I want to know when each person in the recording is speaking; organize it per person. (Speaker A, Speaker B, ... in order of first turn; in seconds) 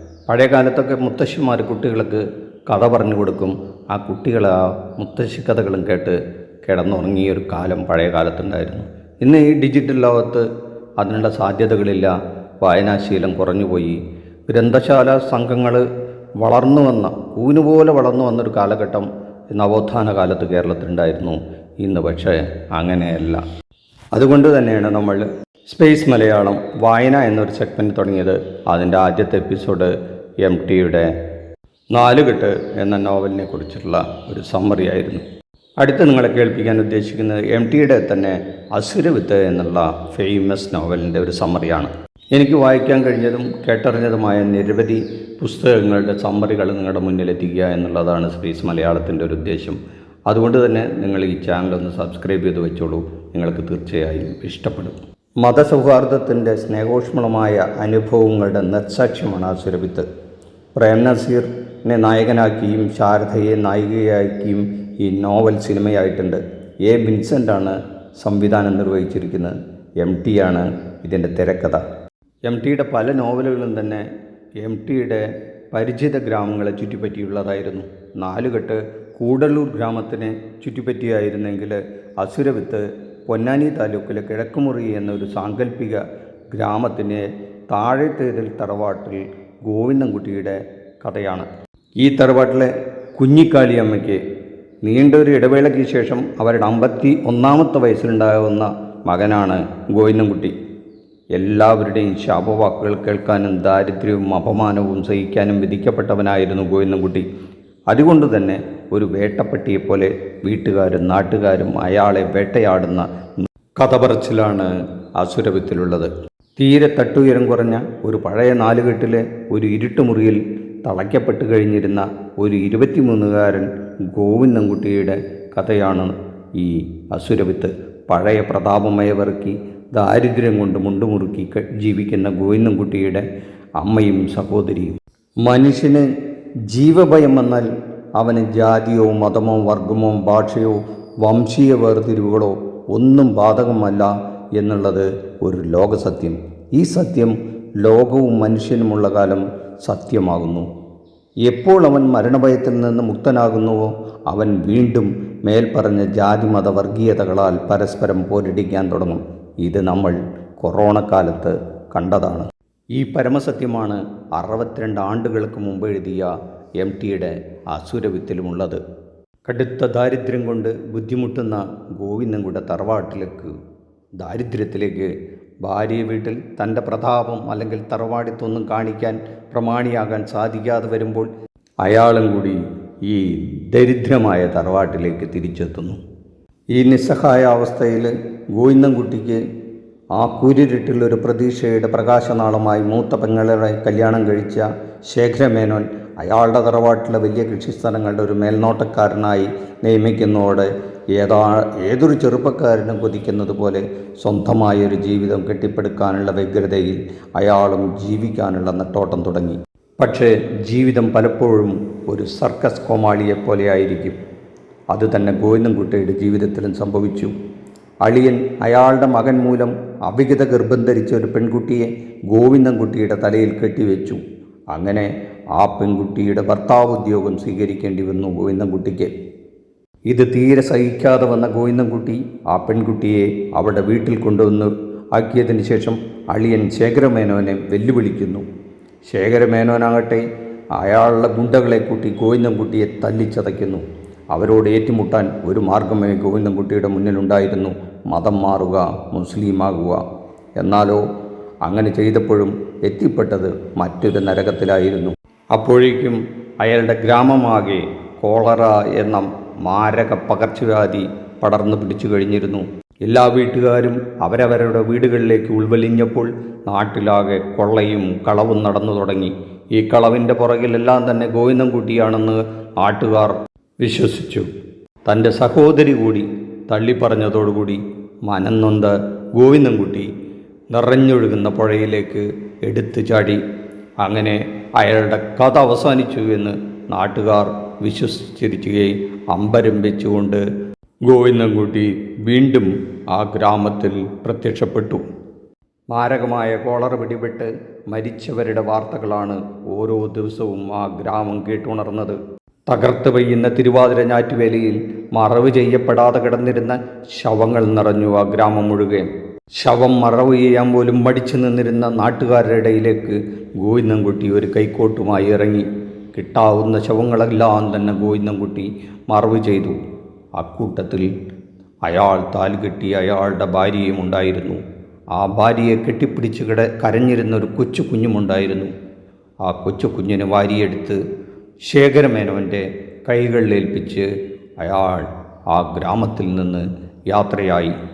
Speaker A: 0.3-10.4, 11.0-14.0, 14.5-15.8, 16.4-23.4, 24.1-31.1, 31.9-35.2, 35.8-60.0, 60.7-71.8, 72.4-74.0, 74.6-91.5, 92.0-94.2, 94.8-100.5, 101.3-107.2, 107.9-113.1, 113.8-133.2, 133.8-136.1, 136.7-150.7, 151.4-168.8, 169.4-173.5, 174.2-175.1, 175.6-181.3, 181.8-186.0, 186.7-189.4, 190.1-214.2, 214.9-217.3, 218.0-224.2, 224.7-229.1, 230.1-238.4, 239.1-240.2, 240.8-250.0, 250.6-251.0, 251.6-274.5, 275.1-280.1, 280.7-283.4, 284.0-290.4, 291.0-295.0, 295.9-319.8, 320.4-321.1, 321.8-324.6, 325.1-328.7, 329.4-331.0, 331.6-334.1, 334.6-337.8